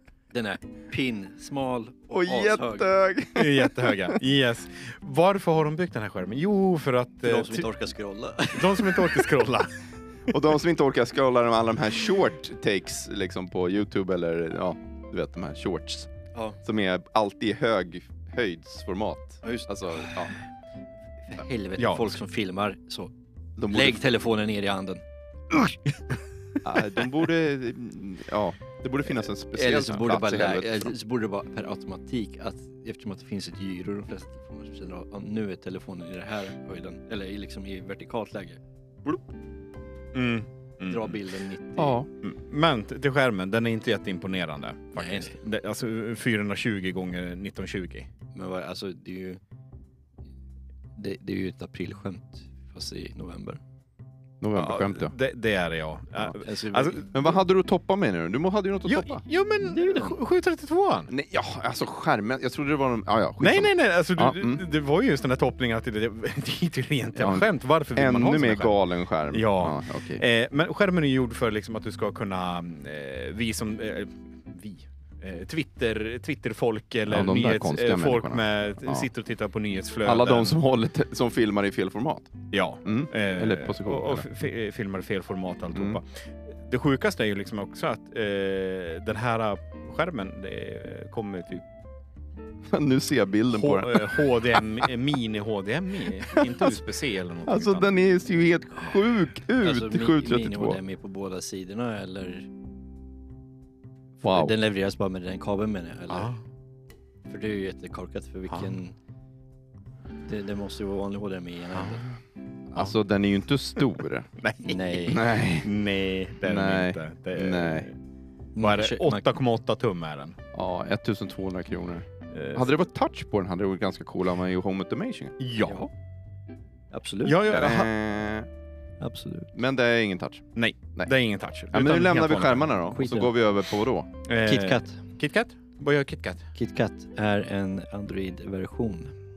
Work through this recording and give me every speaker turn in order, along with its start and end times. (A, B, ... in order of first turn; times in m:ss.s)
0:00.3-0:02.9 A
0:02.1-0:04.2 B
0:03.3-0:07.7 C
0:07.2-0:09.3 A
0:08.5-0:09.8 C
0:10.3-0:16.1 B
0:16.6-0:20.3 B
0:19.4-0:20.2 A
0:21.3-0:23.1 A
0:21.8-0:22.2 C
0:23.6-0:24.0 B
0:23.7-0:26.0 A
0:26.6-0:30.9 B
0:29.5-0:38.6 A
0:40.1-0:41.2 C
0:40.9-0:42.0 A
0:41.8-0:42.1 B
0:42.2-0:48.1 C
0:45.0-0:45.4 A
0:48.3-0:49.4 A
0:51.0-0:53.6 A
0:54.4-0:55.1 B
0:54.5-0:57.2 C
0:56.2-0:57.1 A
0:57.1-0:59.2 B
0:58.8-1:01.1 C
0:59.6-1:00.2 A
1:01.1-1:04.6 B
1:03.4-1:08.8 C
1:07.1-1:10.2 B
1:09.3-1:20.6 C
1:17.1-1:19.1 B
1:20.0-1:22.3 B
1:22.5-1:31.6 C
1:22.8-1:24.3 B
1:25.7-1:26.0 B
1:32.7-1:34.8 B
1:33.5-1:37.9 C
1:36.3-1:36.8 B
1:37.4-1:40.8 B
1:39.6-1:42.5 A
1:44.2-1:46.3 A
1:44.2-1:44.5 B
1:46.1-1:46.4 C
1:47.3-1:49.0 A
1:50.2-1:52.1 A
1:52.7-1:54.3 B
1:54.4-1:54.8 C
1:54.6-1:55.2 A
1:54.9-1:55.8 B
1:55.6-1:58.0 C
1:56.4-1:57.9 B
1:58.6-1:59.2 A
1:58.6-2:00.4 C
2:00.5-2:05.4 B
2:02.3-2:02.6 C
2:05.4-2:05.8 C
2:05.6-2:05.9 A
2:06.9-2:07.4 A
2:07.2-2:07.9 C
2:07.5-2:08.5 B
2:09.0-2:09.5 A
2:09.5-2:11.1 B
2:10.6-2:12.7 C
2:11.7-2:14.1 B
2:12.9-2:13.3 A
2:14.2-2:16.5 C
2:14.4-2:15.0 A
2:16.5-2:19.1 A